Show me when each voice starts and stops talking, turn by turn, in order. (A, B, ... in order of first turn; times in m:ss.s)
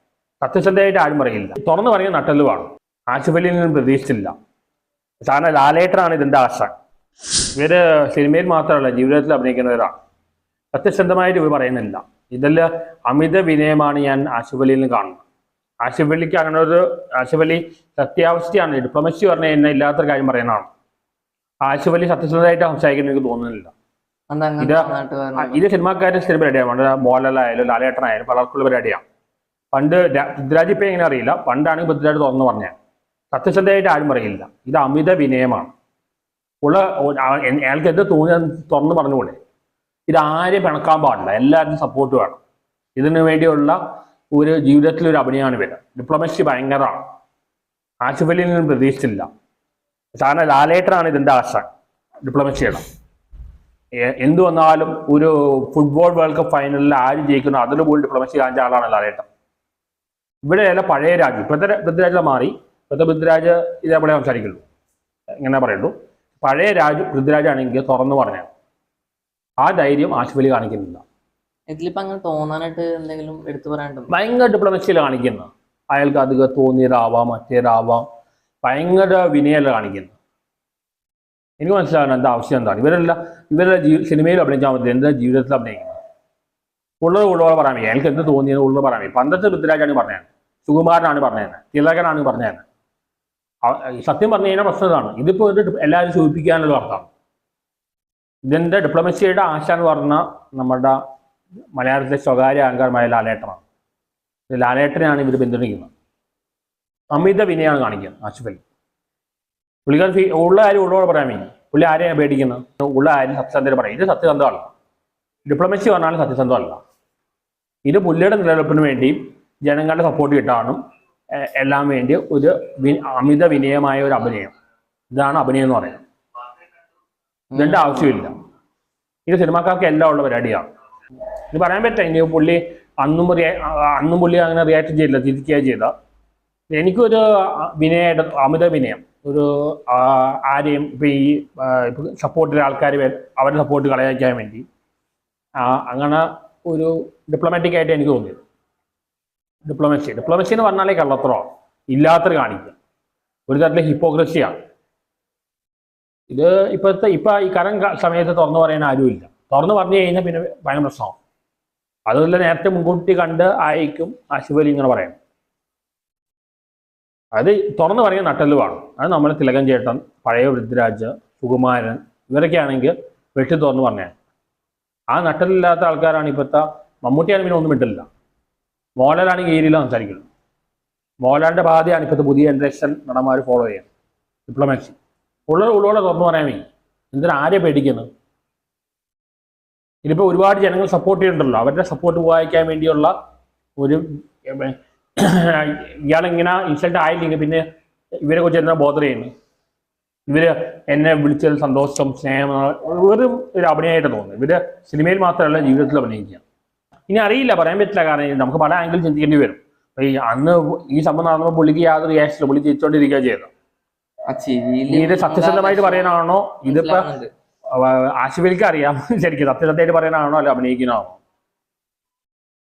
0:00.4-0:04.3 A
0:05.3-0:06.7 A
0:07.6-0:10.0 A
0:10.7-0:15.2 A
0:15.8-0:20.7 A
0:21.6-0:23.7 A
0:24.3-0:25.6 B
0:24.6-0:29.0 A
0:29.7-0:32.7 A
0:33.3-0:35.7 A
0:36.6-0:39.4 A
0:40.1-0:42.4 A
0:43.0-0:43.8 A
0:44.3-0:47.0 A
0:48.0-0:49.3 A
0:50.2-0:51.7 A
0:52.2-0:52.8 A
0:54.0-0:59.2 A
1:00.5-1:04.6 A
1:05.4-1:08.5 A
1:09.6-1:11.0 A
1:11.7-1:14.1 B
1:14.1-1:18.0 A
1:18.6-1:20.1 A
1:21.6-1:26.0 A
1:27.0-1:32.6 A
1:33.6-1:37.1 A
1:38.4-1:41.0 A
1:41.7-1:43.6 A
1:44.5-1:45.9 A
1:47.1-1:48.6 A
1:49.8-1:54.7 A
1:55.4-1:56.8 A
1:57.8-2:00.8 A
2:01.3-2:04.5 A
2:05.1-2:06.0 A
2:07.5-2:08.1 B
2:07.6-2:08.3 A
2:09.2-2:10.7 A
2:11.5-2:15.9 A
2:16.7-2:24.6 A
2:25.6-2:28.4 A
2:29.6-2:32.7 A
2:33.5-2:34.6 A
2:36.3-2:41.2 A
2:42.1-2:45.2 A
2:47.3-2:54.1 A
2:55.1-2:58.1 A
2:59.0-3:00.2 A
3:01.2-3:03.8 A
3:04.5-3:05.0 A
3:05.5-3:08.1 A
3:10.0-3:13.1 A
3:13.8-3:17.6 A
3:18.2-3:19.3 A
3:20.3-3:26.4 A
3:27.1-3:33.5 A
3:34.3-3:37.3 B
3:34.9-3:37.1 A
3:37.7-3:41.2 A